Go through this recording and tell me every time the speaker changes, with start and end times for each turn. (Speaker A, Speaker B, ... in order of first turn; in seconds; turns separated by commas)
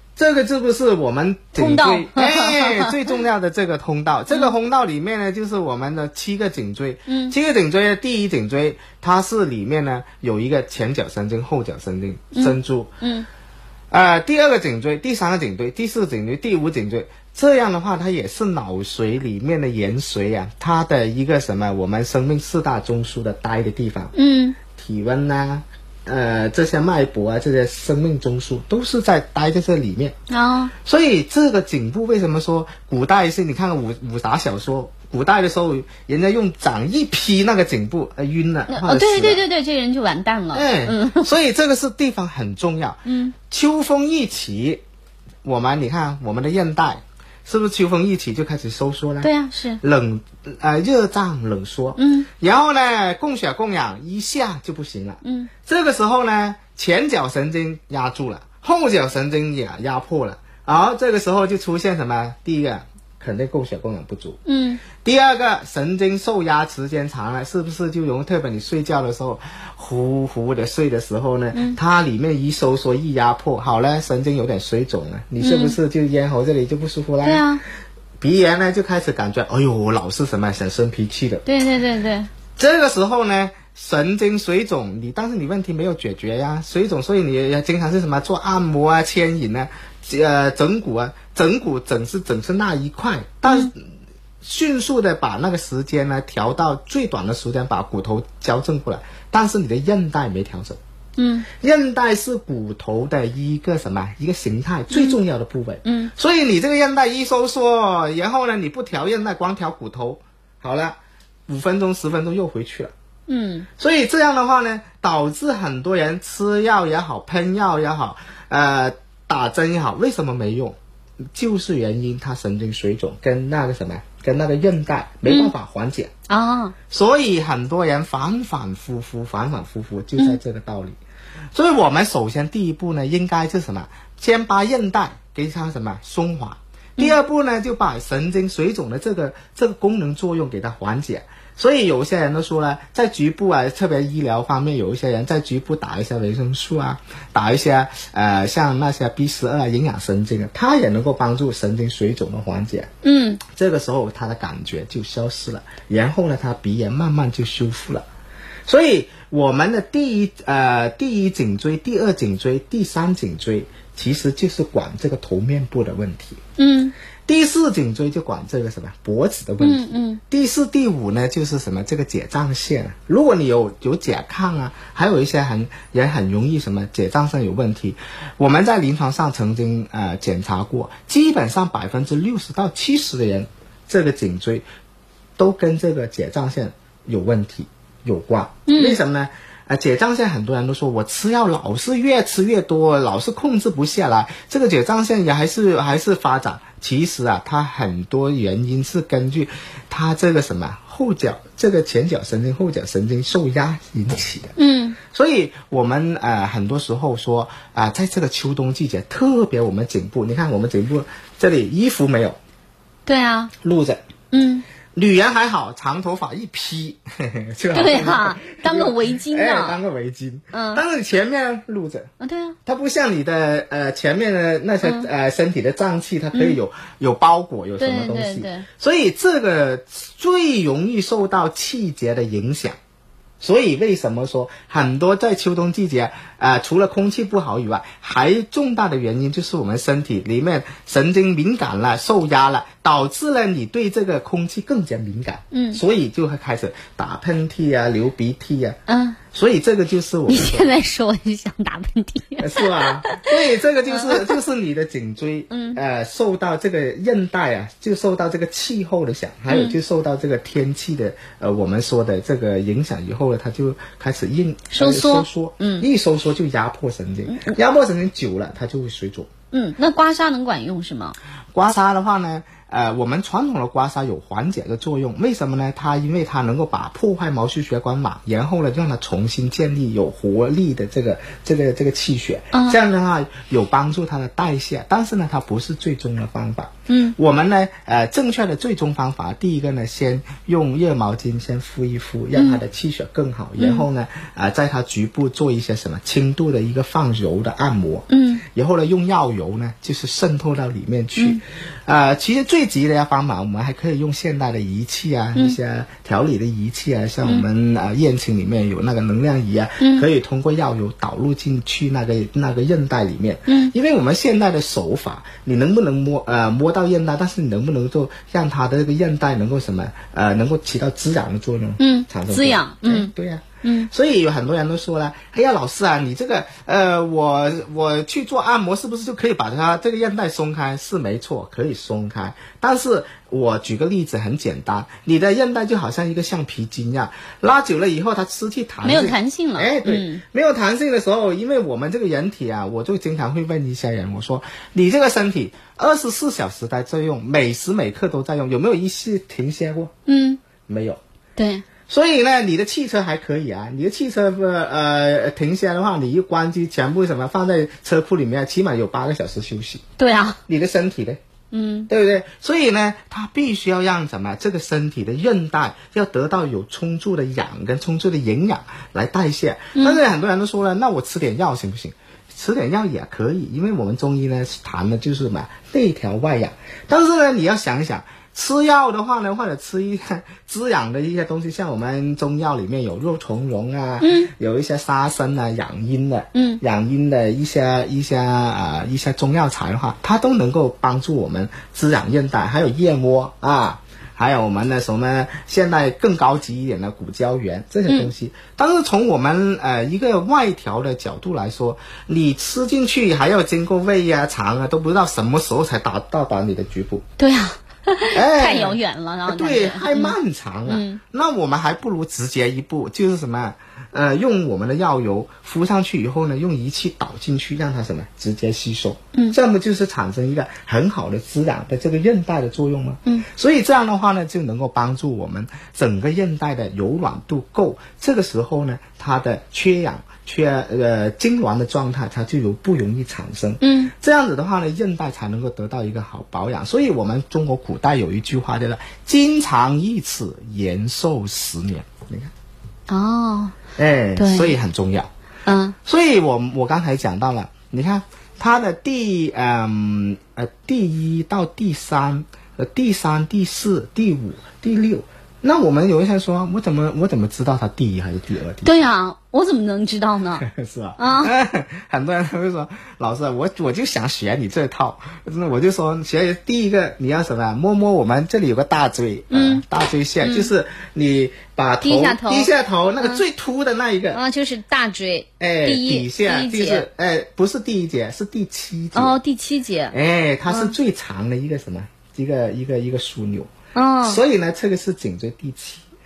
Speaker A: 0.2-12.9, Speaker B: 1.6-2.9, Speaker B: 7.1-7.3, Speaker B: 12.3-13.3, Speaker A: 13.9-24.1, Speaker B: 24.1-24.6, Speaker A: 24.7-30.2, Speaker B: 30.3-30.7, Speaker A: 30.8-39.4, Speaker B: 38.7-41.3, Speaker A: 40.5-44.8, Speaker B: 43.0-43.4, Speaker A: 45.4-49.3, Speaker B: 49.2-49.8, Speaker A: 49.8-64.4, Speaker B: 52.0-52.3, Speaker B: 55.2-55.5, Speaker B: 64.5-64.8, Speaker A: 65.0-77.4, Speaker B: 75.4-75.8, Speaker B: 77.2-77.6, Speaker A: 78.2-81.5, Speaker B: 81.5-82.3, Speaker A: 82.6-93.9, Speaker B: 93.5-93.7, Speaker A: 94.4-100.8, Speaker B: 101.2-101.5, Speaker A: 101.6-111.0, Speaker B: 104.9-105.2, Speaker B: 105.8-106.1, Speaker A: 111.5-112.9, Speaker B: 113.3-113.7, Speaker A: 113.8-120.8, Speaker A: 121.3-126.1, Speaker B: 125.2-125.5, Speaker B: 126.3-126.8, Speaker A: 126.9-131.0, Speaker A: 131.5-152.9, Speaker B: 153.0-153.4, Speaker A: 153.5-158.1, Speaker A: 158.7-166.4, Speaker B: 166.6-166.9, Speaker A: 167.2-184.7, Speaker B: 169.6-170.2, Speaker A: 185.4-204.5, Speaker B: 188.7-189.0, Speaker B: 204.6-205.0, Speaker A: 205.1-212.4, Speaker B: 213.1-213.5, Speaker A: 213.6-214.0, Speaker B: 214.3-214.7, Speaker A: 214.9-222.1, Speaker B: 217.7-219.8, Speaker B: 220.5-220.8, Speaker B: 222.2-222.6, Speaker A: 222.7-232.8, Speaker B: 224.8-225.1, Speaker B: 226.3-226.6, Speaker B: 227.8-228.7, Speaker A: 233.4-248.8, Speaker B: 245.5-245.8, Speaker B: 248.9-249.2, Speaker A: 249.3-250.7, Speaker B: 250.3-254.4, Speaker A: 252.4-269.3, Speaker B: 255.5-255.8, Speaker B: 259.5-259.8, Speaker B: 264.7-265.9, Speaker B: 267.3-267.6, Speaker B: 269.5-271.1, Speaker A: 271.5-349.9, Speaker B: 282.5-282.8, Speaker B: 286.9-287.1, Speaker B: 292.4-292.6, Speaker B: 293.6-293.9, Speaker B: 298.1-298.4, Speaker B: 301.1-301.4, Speaker B: 309.8-310.1, Speaker B: 313.5-313.7, Speaker B: 321.8-323.1, Speaker B: 323.6-323.9, Speaker B: 338.8-340.2, Speaker B: 350.1-350.4, Speaker A: 350.6-351.0, Speaker B: 351.4-351.6, Speaker A: 351.9-359.8, Speaker B: 360.0-360.4, Speaker A: 360.5-361.2, Speaker B: 361.5-361.9, Speaker A: 361.9-407.1, Speaker B: 384.0-384.3, Speaker B: 386.3-386.6, Speaker B: 407.2-411.0, Speaker A: 408.1-442.3, Speaker B: 433.6-433.9, Speaker B: 442.9-443.6, Speaker A: 443.8-445.1, Speaker B: 444.1-444.6, Speaker B: 445.5-445.8, Speaker A: 445.9-458.7, Speaker B: 458.6-460.5, Speaker A: 460.4-474.2, Speaker B: 461.0-461.3, Speaker B: 469.3-469.6, Speaker B: 470.2-470.5, Speaker B: 471.8-473.2, Speaker B: 474.1-476.9, Speaker A: 475.4-479.2, Speaker B: 478.9-479.9, Speaker A: 479.9-483.5, Speaker B: 480.5-480.7, Speaker B: 483.7-484.2, Speaker A: 484.0-485.9